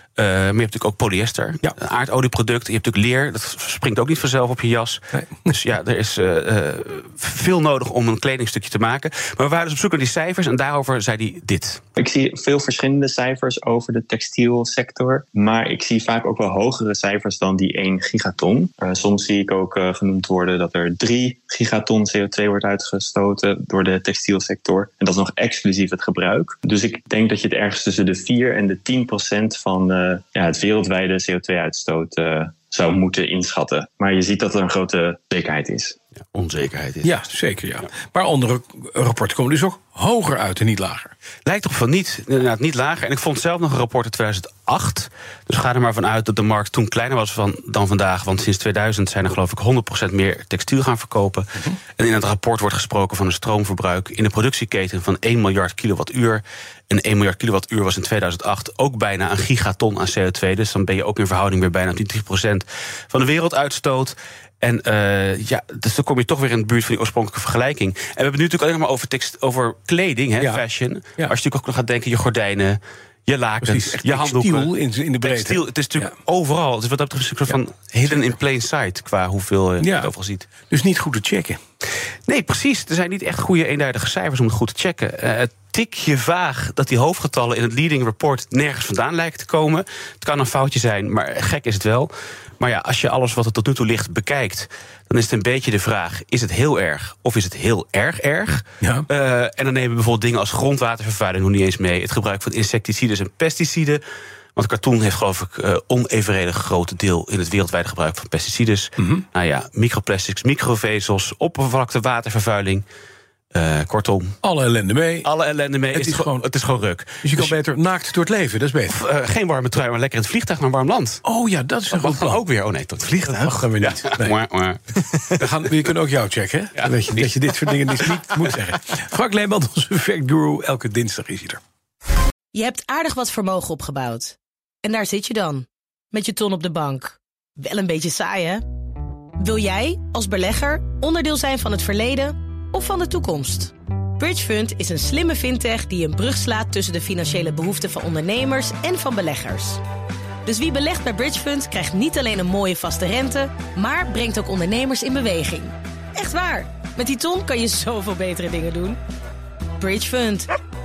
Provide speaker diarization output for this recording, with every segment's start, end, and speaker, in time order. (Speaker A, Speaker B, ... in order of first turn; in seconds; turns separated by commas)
Speaker A: 0.2-11.8, Speaker B: 12.0-36.0, Speaker A: 36.3-37.2, Speaker C: 37.0-41.1, Speaker A: 41.5-74.7, Speaker C: 70.4-70.6, Speaker C: 73.6-76.1, Speaker A: 75.2-80.5, Speaker C: 79.8-80.1, Speaker C: 80.7-81.6, Speaker A: 82.3-104.0, Speaker C: 98.8-99.1, Speaker A: 104.6-112.8, Speaker C: 109.0-109.2, Speaker A: 113.5-114.4, Speaker C: 114.4-115.3, Speaker A: 115.2-117.5, Speaker C: 115.9-116.5, Speaker C: 117.2-119.0, Speaker A: 118.9-121.2, Speaker C: 121.2-122.4, Speaker A: 121.9-125.6, Speaker C: 123.0-124.3, Speaker C: 125.3-131.6, Speaker A: 126.8-127.7, Speaker D: 132.5-138.6, Speaker D: 139.4-149.8, Speaker D: 150.4-159.0, Speaker D: 159.8-160.5